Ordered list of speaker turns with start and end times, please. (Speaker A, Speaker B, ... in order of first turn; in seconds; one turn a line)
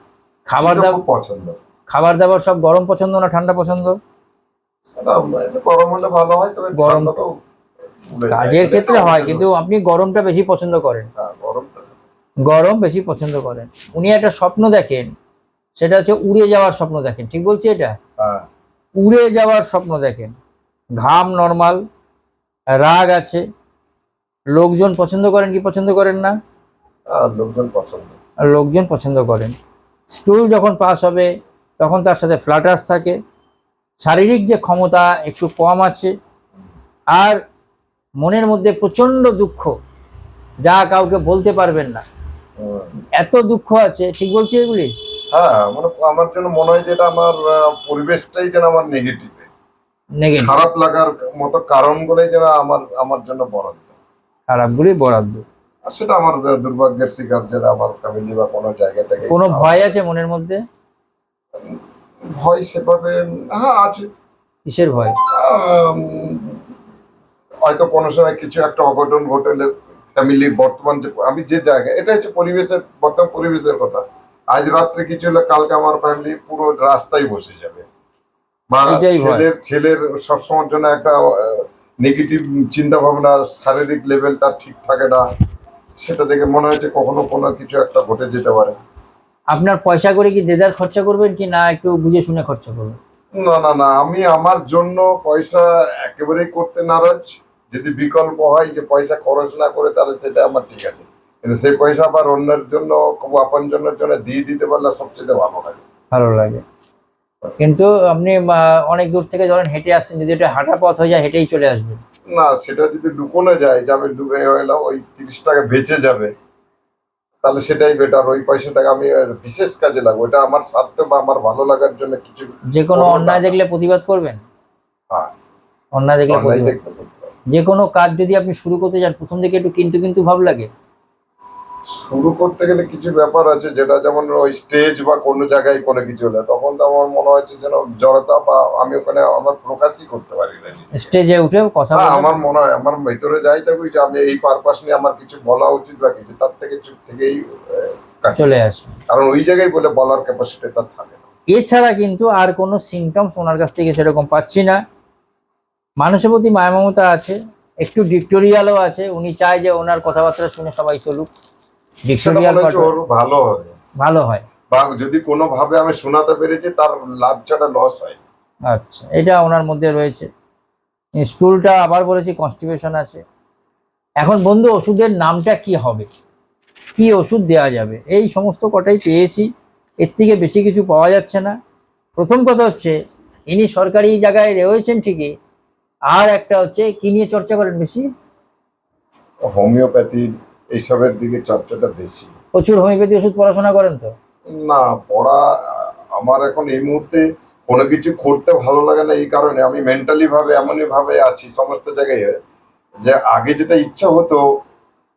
Speaker A: 0.5-1.0
Speaker B: 0.6-1.6
Speaker A: 1.9-4.0
Speaker B: 5.0-7.3
Speaker A: 6.7-7.1
Speaker B: 8.1-9.5
Speaker A: 8.3-11.1
Speaker B: 11.2-12.0
Speaker A: 12.4-15.1
Speaker A: 15.8-17.9
Speaker B: 18.2-18.4
Speaker A: 19.0-20.3
Speaker A: 21.0-21.8
Speaker A: 22.8-23.4
Speaker A: 24.6-26.3
Speaker B: 27.1-28.1
Speaker A: 28.4-29.5
Speaker A: 30.1-31.3
Speaker A: 31.8-33.2
Speaker A: 34.0-36.1
Speaker A: 38.2-39.7
Speaker A: 40.6-42.0
Speaker B: 42.6-42.9
Speaker A: 43.2-44.9
Speaker B: 45.3-49.5
Speaker A: 50.2-50.5
Speaker B: 50.4-53.9
Speaker A: 54.5-55.4
Speaker B: 55.9-59.9
Speaker A: 59.3-60.6
Speaker B: 62.3-64.1
Speaker A: 64.7-65.2
Speaker B: 65.3-66.6
Speaker B: 67.7-77.8
Speaker B: 78.7-85.2
Speaker A: 78.8-79.4
Speaker B: 86.0-88.8
Speaker A: 89.5-93.0
Speaker B: 93.4-105.8
Speaker A: 106.1-106.6
Speaker A: 107.6-112.0
Speaker B: 112.3-116.3
Speaker B: 117.4-123.5
Speaker A: 122.8-124.4
Speaker A: 125.9-126.7
Speaker B: 126.3-127.3
Speaker A: 127.5-130.7
Speaker B: 131.9-141.1
Speaker A: 140.9-142.4
Speaker B: 141.9-148.6
Speaker A: 148.3-148.9
Speaker B: 149.1-151.2
Speaker A: 151.5-154.8
Speaker A: 156.0-161.3
Speaker A: 162.1-162.9
Speaker B: 162.2-163.9
Speaker A: 164.0-164.4
Speaker B: 164.7-168.2
Speaker A: 168.7-170.3
Speaker A: 171.2-173.2
Speaker A: 174.2-176.1
Speaker A: 177.0-179.5
Speaker A: 180.0-181.6
Speaker A: 182.2-182.9
Speaker A: 183.5-185.3
Speaker A: 186.1-188.0
Speaker B: 189.5-192.3
Speaker A: 192.5-194.1
Speaker B: 194.5-202.3
Speaker B: 203.1-204.4